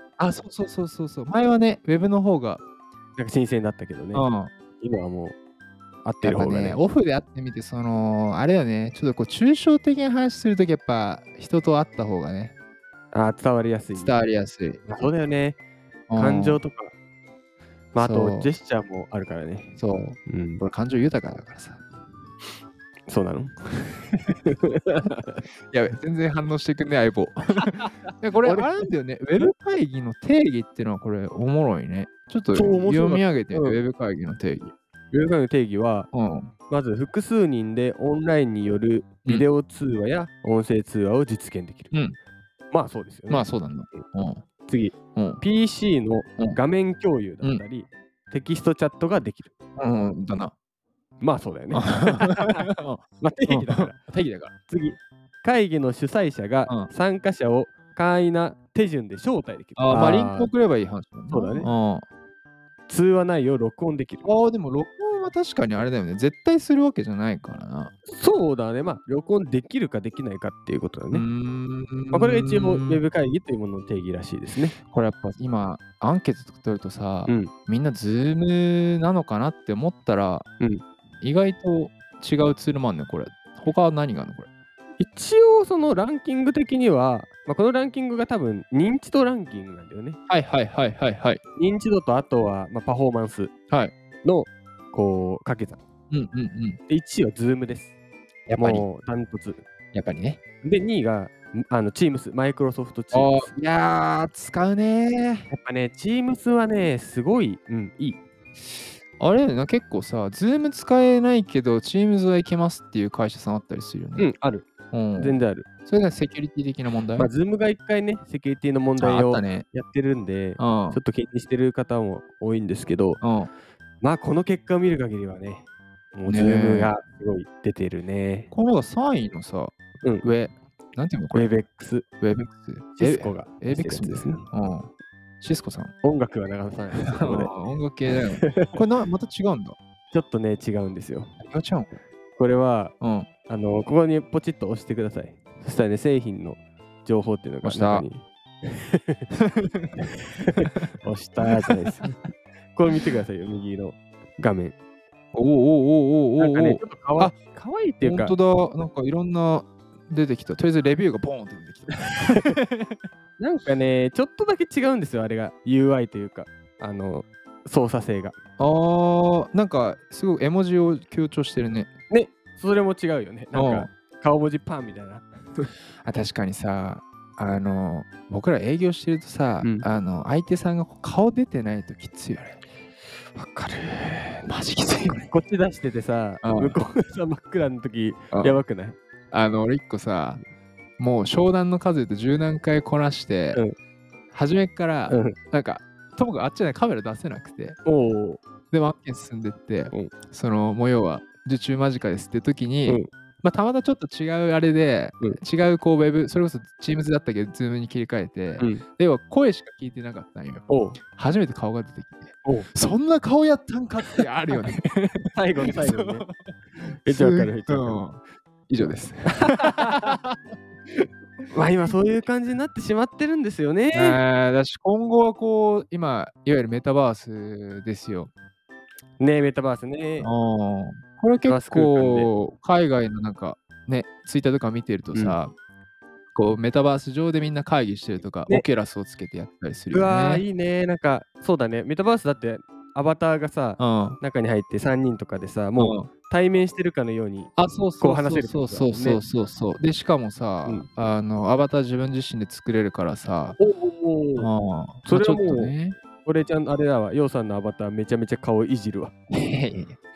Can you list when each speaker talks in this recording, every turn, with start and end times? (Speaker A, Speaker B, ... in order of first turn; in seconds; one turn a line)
Speaker A: 0.2-2.6
Speaker B: 3.2-4.3
Speaker A: 4.1-4.5
Speaker B: 4.8-5.3
Speaker B: 6.0-6.8
Speaker A: 6.2-12.5
Speaker B: 13.1-14.2
Speaker A: 13.9-14.8
Speaker B: 14.8-15.6
Speaker A: 16.1-16.6
Speaker B: 16.1-16.9
Speaker B: 17.9-19.7
Speaker A: 18.0-18.5
Speaker A: 19.8-21.8
Speaker B: 20.3-20.6
Speaker B: 23.1-23.6
Speaker B: 24.4-25.4
Speaker A: 25.7-34.7
Speaker B: 28.4-28.7
Speaker B: 32.5-33.8
Speaker B: 35.1-36.1
Speaker A: 36.1-36.5
Speaker B: 36.7-41.9
Speaker B: 42.7-43.5
Speaker A: 43.3-44.4
Speaker B: 44.7-49.5
Speaker A: 45.1-45.4
Speaker A: 49.8-50.5
Speaker B: 51.2-52.7
Speaker A: 51.7-54.5
Speaker B: 53.2-54.0
Speaker B: 54.7-60.5
Speaker A: 59.8-62.1
Speaker B: 61.3-61.7
Speaker B: 62.9-64.3
Speaker A: 64.2-67.9
Speaker B: 68.1-71.3
Speaker A: 71.1-73.0
Speaker B: 72.1-74.8
Speaker A: 74.8-80.5
Speaker B: 77.3-77.5
Speaker A: 81.2-84.5
Speaker B: 85.0-90.2
Speaker A: 90.3-91.4
Speaker B: 91.6-93.5
Speaker B: 94.2-95.8
Speaker A: 96.1-96.8
Speaker B: 96.9-97.9
Speaker A: 98.5-98.9
Speaker B: 98.6-99.6
Speaker A: 99.9-100.4
Speaker B: 100.6-103.5
Speaker A: 103.1-105.5
Speaker B: 105.5-108.2
Speaker A: 109.2-114.3
Speaker B: 114.2-115.7
Speaker A: 114.9-117.3
Speaker B: 117.2-123.2
Speaker A: 119.0-119.7
Speaker A: 120.6-121.0
Speaker A: 123.2-123.5
Speaker B: 124.0-128.5
Speaker A: 126.3-126.9
Speaker A: 128.5-131.6
Speaker B: 131.3-132.1
Speaker A: 132.2-134.9
Speaker B: 133.0-134.5
Speaker A: 135.4-135.9
Speaker B: 136.0-137.5
Speaker A: 137.1-139.8
Speaker B: 138.4-138.7
Speaker B: 140.1-141.3
Speaker A: 141.4-141.9
Speaker B: 142.4-142.9
Speaker A: 143.0-143.3
Speaker B: 143.5-149.2
Speaker A: 147.6-148.1
Speaker A: 149.4-150.0
Speaker B: 150.0-152.1
Speaker A: 151.5-152.2
Speaker B: 152.8-154.8
Speaker A: 155.3-157.3
Speaker B: 156.4-158.3
Speaker A: 158.0-162.9
Speaker B: 163.4-168.4
Speaker A: 168.6-171.9
Speaker B: 172.1-175.7
Speaker A: 173.5-173.9
Speaker A: 176.0-182.6
Speaker B: 179.6-179.9
Speaker B: 183.3-184.5
Speaker A: 184.4-185.3
Speaker B: 185.3-189.0
Speaker A: 186.4-186.8
Speaker A: 188.3-188.6
Speaker A: 189.3-190.4
Speaker A: 191.0-193.6
Speaker A: 194.3-197.8
Speaker B: 195.1-195.4
Speaker B: 197.8-198.4
Speaker A: 198.7-216.3
Speaker B: 210.7-211.0
Speaker B: 215.3-216.3
Speaker B: 217.1-218.1
Speaker A: 217.1-220.2
Speaker B: 219.5-220.2
Speaker B: 221.5-224.2
Speaker A: 223.9-228.3
Speaker B: 229.2-230.3
Speaker A: 230.2-235.5
Speaker B: 231.4-232.3
Speaker B: 235.1-235.4
Speaker A: 236.3-240.4
Speaker B: 239.9-249.2
Speaker A: 243.8-244.2
Speaker A: 245.8-246.1
Speaker A: 247.6-253.6
Speaker B: 253.6-254.5
Speaker A: 254.4-256.0
Speaker B: 255.1-255.7
Speaker B: 256.2-259.1
Speaker A: 259.3-260.0